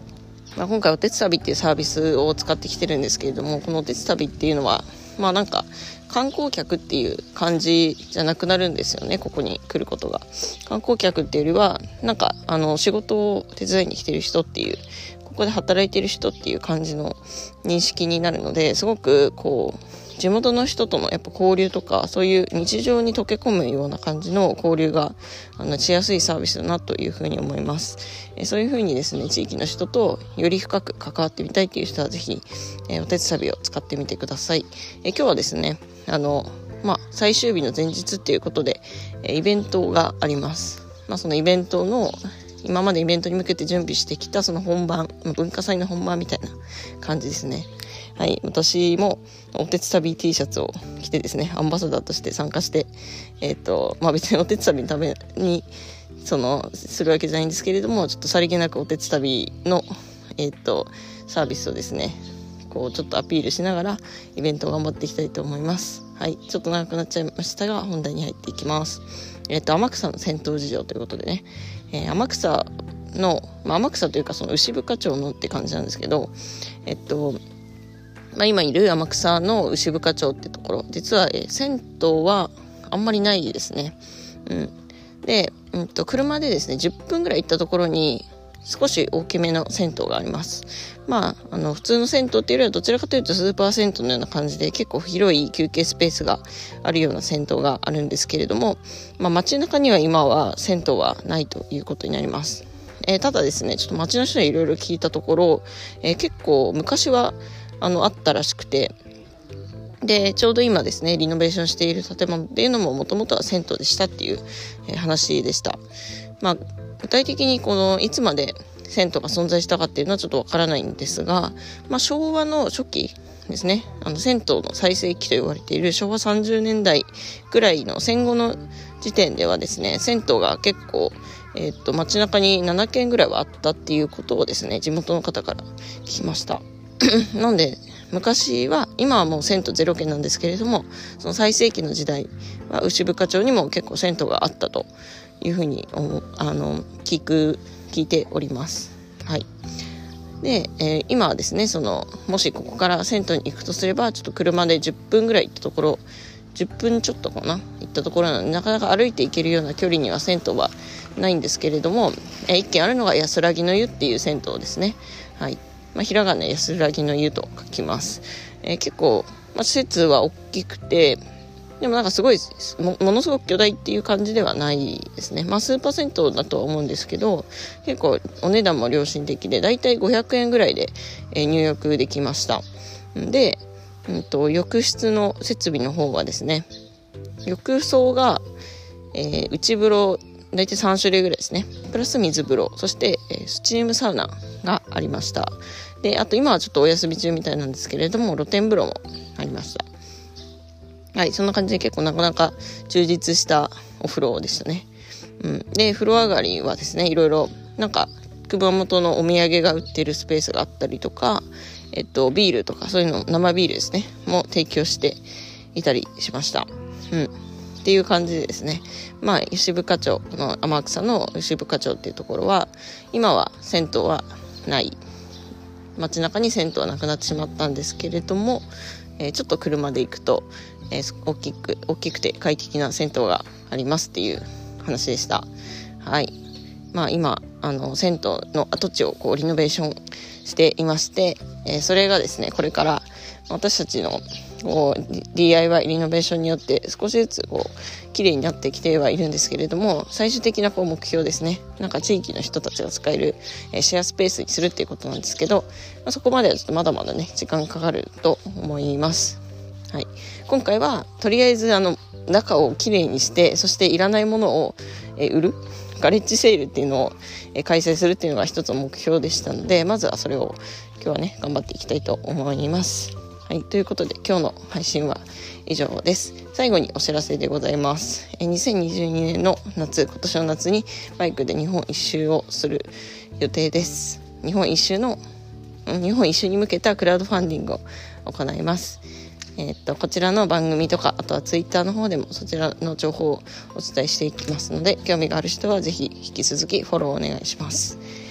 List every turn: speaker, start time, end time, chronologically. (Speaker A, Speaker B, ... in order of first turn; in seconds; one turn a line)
Speaker A: 0.6-55.7
Speaker A: 56.2-76.3
Speaker A: 76.9-77.4
Speaker A: 78.3-108.9
Speaker A: 110.0-115.8
Speaker A: 116.4-144.9
Speaker A: 145.4-149.4
Speaker A: 150.4-171.2
Speaker A: 171.8-182.6
Speaker A: 183.2-186.7
Speaker A: 187.4-188.4
Speaker A: 189.1-199.8
Speaker A: 201.2-204.9
Speaker A: 205.4-215.2
Speaker A: 215.7-225.0
Speaker A: 226.0-228.7
Speaker A: 229.2-235.5
Speaker A: 236.0-236.3
Speaker A: 236.9-285.2
Speaker A: 285.9-289.0
Speaker A: 289.6-298.0